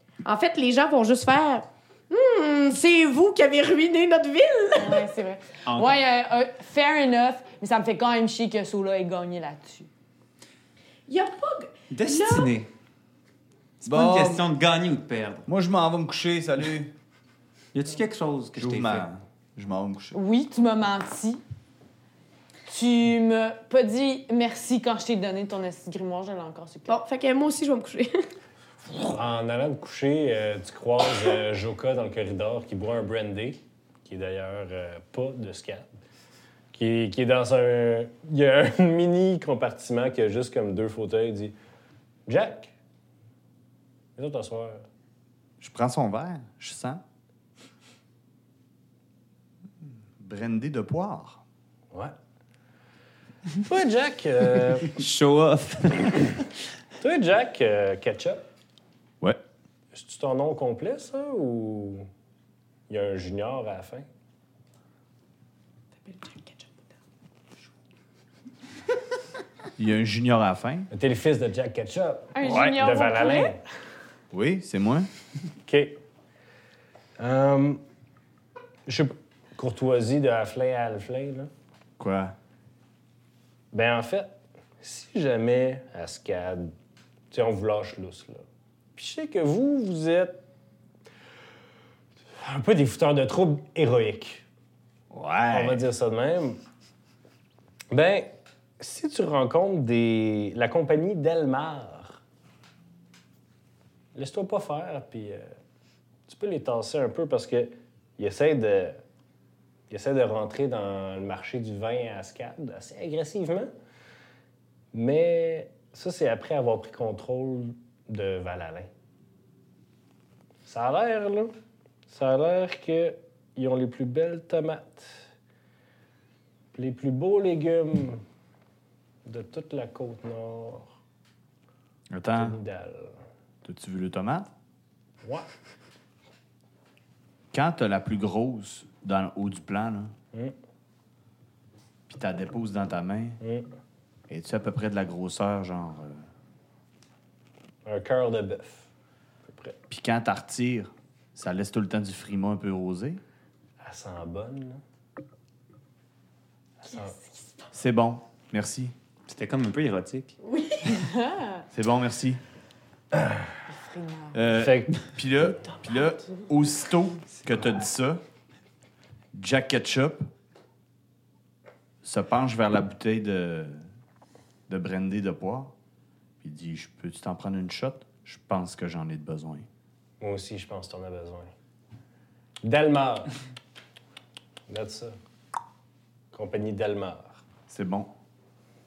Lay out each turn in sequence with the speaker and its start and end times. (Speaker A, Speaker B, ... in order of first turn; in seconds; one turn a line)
Speaker A: 0.2-5.1
Speaker B: 4.8-9.9
Speaker C: 5.7-6.0
Speaker A: 11.1-12.5
Speaker C: 11.9-12.7
Speaker C: 13.8-15.4
Speaker D: 13.8-14.4
Speaker D: 15.5-16.9
Speaker C: 17.7-19.1
Speaker D: 18.6-20.2
Speaker B: 20.1-21.4
Speaker B: 22.7-26.9
Speaker A: 26.9-28.2
Speaker E: 29.1-35.9
Speaker E: 36.7-41.5
Speaker E: 42.3-42.7
Speaker E: 44.2-44.8
Speaker D: 45.6-47.0
Speaker D: 50.2-51.4
Speaker E: 53.6-55.0
Speaker C: 54.8-56.4
Speaker E: 57.0-58.4
Speaker E: 59.9-62.1
Speaker E: 62.9-64.1
Speaker A: 66.0-66.8
Speaker D: 69.8-70.9
Speaker E: 70.9-73.6
Speaker B: 72.3-73.5
Speaker D: 74.3-75.1
Speaker E: 75.7-76.0
Speaker E: 77.2-77.8
Speaker E: 78.8-81.5
Speaker D: 82.0-82.3
Speaker E: 83.7-86.7
Speaker E: 87.3-88.4
Speaker E: 89.0-90.4
Speaker E: 92.4-94.4
Speaker D: 95.1-95.8
Speaker E: 95.5-96.6
Speaker E: 97.9-102.2
Speaker E: 104.1-105.5
Speaker E: 106.3-109.0
Speaker E: 109.9-113.7
Speaker E: 114.9-118.9
Speaker E: 120.7-121.5
Speaker E: 122.1-125.2
Speaker E: 126.7-128.2
Speaker E: 129.2-130.9
Speaker D: 132.1-132.6
Speaker E: 132.3-133.2
Speaker D: 133.6-134.5
Speaker D: 137.5-140.1
Speaker D: 142.1-143.4
Speaker E: 143.4-143.7
Speaker D: 144.3-146.2
Speaker E: 147.8-148.9
Speaker E: 149.4-149.8
Speaker D: 149.9-153.2
Speaker E: 153.8-154.8
Speaker E: 156.8-157.1
Speaker D: 157.7-158.9
Speaker C: 159.3-160.3
Speaker A: 160.4-161.0
Speaker B: 160.9-161.7
Speaker D: 161.7-162.4
Speaker E: 163.1-163.5
Speaker B: 163.7-164.4
Speaker D: 164.3-168.2
Speaker E: 164.5-165.0
Speaker D: 169.3-170.3
Speaker D: 172.0-173.8
Speaker D: 174.7-175.7
Speaker D: 176.4-179.7
Speaker E: 180.2-181.5
Speaker E: 182.6-183.3
Speaker E: 184.7-185.2
Speaker E: 186.3-187.4
Speaker D: 187.7-188.1